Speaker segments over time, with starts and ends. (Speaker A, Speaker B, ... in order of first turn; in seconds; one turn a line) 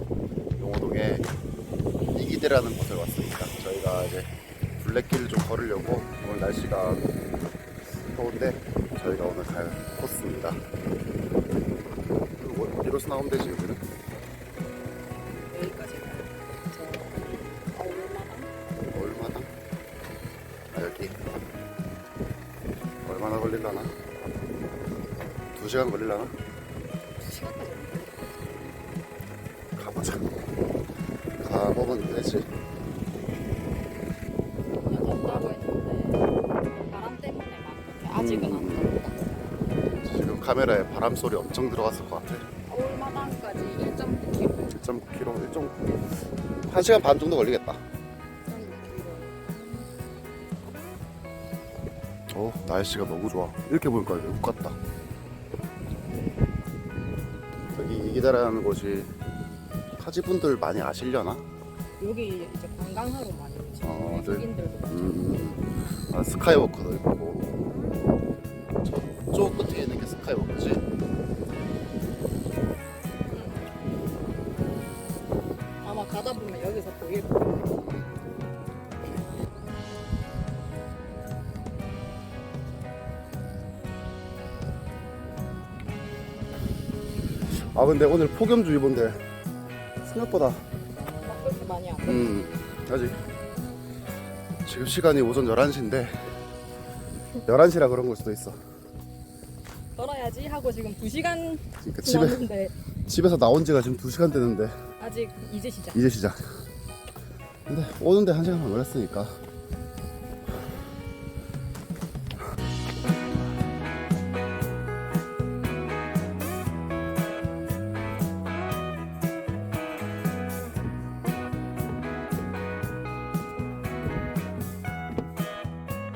Speaker A: 0.6-1.3
Speaker A: 2.1-7.1
Speaker A: 8.1-10.6
Speaker A: 12.4-13.8
Speaker B: 15.3-18.5
Speaker A: 18.9-19.5
Speaker A: 20.7-21.2
Speaker A: 23.1-23.9
Speaker A: 25.5-26.4
Speaker B: 27.2-28.6
Speaker A: 29.8-30.4
Speaker A: 31.4-32.5
Speaker B: 34.8-39.3
Speaker A: 38.1-38.9
Speaker A: 39.9-42.4
Speaker B: 42.7-44.7
Speaker A: 44.7-46.1
Speaker A: 46.7-47.8
Speaker B: 48.5-49.6
Speaker A: 52.3-54.8
Speaker A: 57.7-59.1
Speaker A: 60.0-61.4
Speaker B: 62.0-65.5
Speaker A: 63.8-67.6
Speaker A: 68.8-70.8
Speaker B: 73.3-73.7
Speaker B: 75.8-77.9
Speaker A: 87.5-89.2
Speaker A: 90.0-90.6
Speaker B: 91.1-92.4
Speaker A: 92.0-93.2
Speaker A: 94.7-96.2
Speaker A: 97.5-98.6
Speaker B: 100.0-102.8
Speaker A: 101.8-102.5
Speaker A: 103.1-104.8
Speaker B: 105.0-106.0
Speaker A: 105.9-106.6
Speaker A: 107.7-109.4